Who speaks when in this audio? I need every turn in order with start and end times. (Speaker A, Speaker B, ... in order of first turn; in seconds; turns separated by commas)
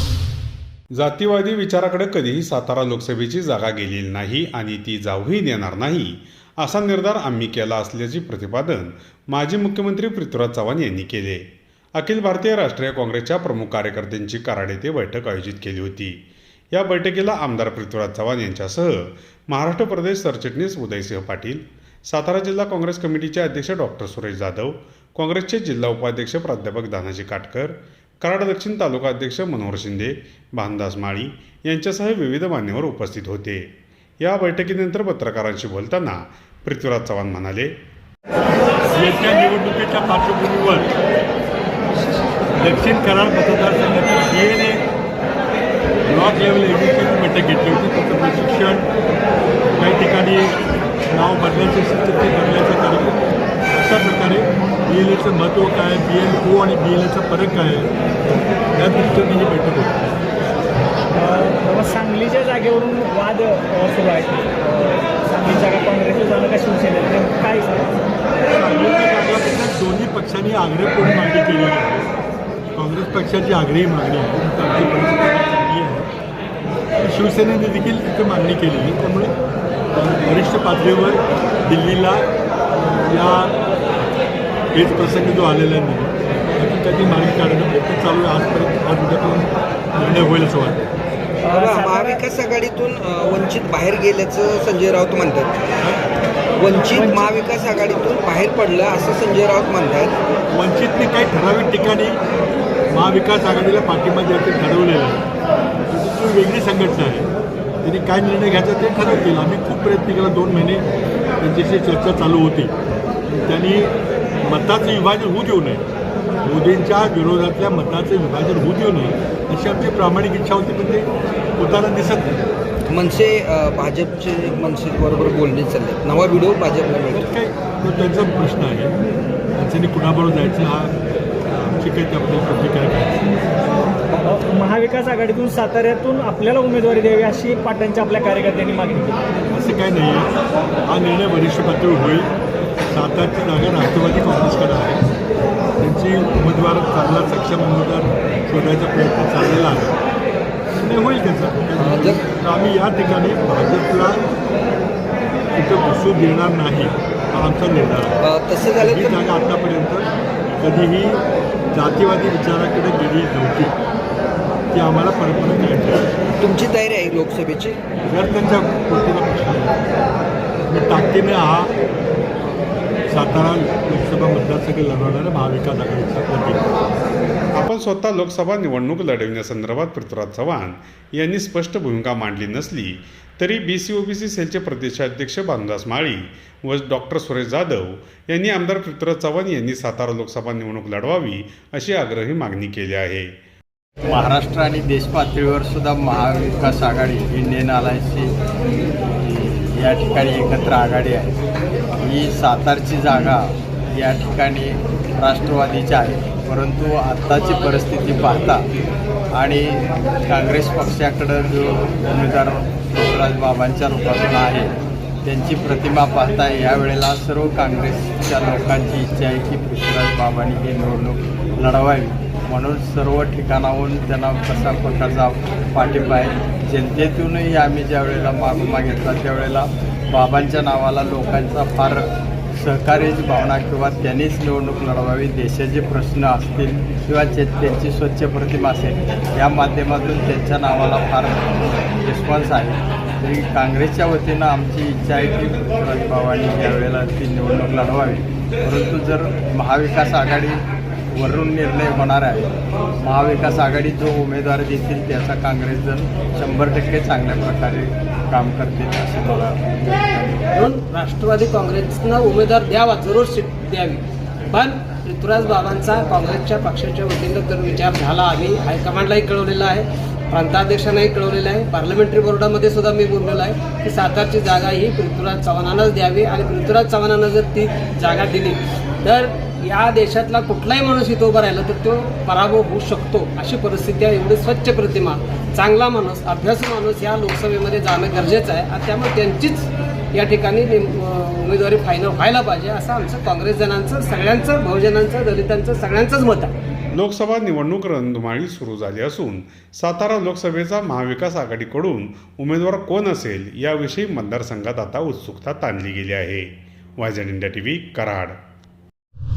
Speaker A: 0.9-11.4, Speaker A: 11.9-16.2, Speaker A: 16.7-33.7, Speaker A: 34.2-37.7, Speaker B: 39.0-40.9, Speaker B: 42.6-44.8, Speaker B: 46.1-48.9, Speaker B: 49.8-50.6, Speaker B: 51.1-53.2, Speaker B: 53.7-57.9, Speaker B: 58.7-60.0, Speaker C: 61.2-68.1, Speaker B: 68.5-72.1, Speaker B: 72.8-76.1, Speaker B: 77.0-79.3, Speaker B: 79.9-83.6, Speaker B: 84.7-90.8, Speaker C: 91.5-92.2, Speaker D: 91.5-95.6, Speaker B: 95.8-96.1, Speaker D: 96.6-100.2, Speaker C: 96.9-97.3, Speaker B: 100.5-102.2, Speaker B: 102.9-105.2, Speaker B: 105.9-107.3, Speaker B: 107.8-110.8, Speaker B: 111.4-112.7, Speaker B: 113.3-115.9, Speaker B: 116.4-122.4, Speaker D: 122.9-127.3, Speaker B: 127.1-128.9, Speaker B: 129.6-131.0, Speaker B: 131.5-133.3, Speaker C: 134.2-139.2, Speaker B: 139.5-140.3, Speaker B: 140.9-142.3, Speaker B: 142.9-145.0, Speaker B: 145.8-150.0, Speaker B: 150.8-154.2, Speaker D: 151.8-152.2, Speaker B: 155.6-158.2, Speaker D: 158.2-159.2, Speaker B: 158.8-161.2, Speaker B: 161.7-163.8, Speaker B: 164.7-166.1, Speaker D: 166.4-167.8, Speaker B: 168.1-169.8, Speaker B: 170.7-171.7, Speaker B: 173.1-176.6, Speaker A: 177.5-193.3, Speaker E: 194.1-198.3, Speaker E: 199.2-201.3, Speaker E: 202.0-208.6, Speaker E: 209.3-214.7, Speaker E: 215.2-232.0, Speaker E: 232.6-250.6, Speaker E: 251.1-260.5, Speaker F: 260.6-296.5, Speaker A: 296.9-308.4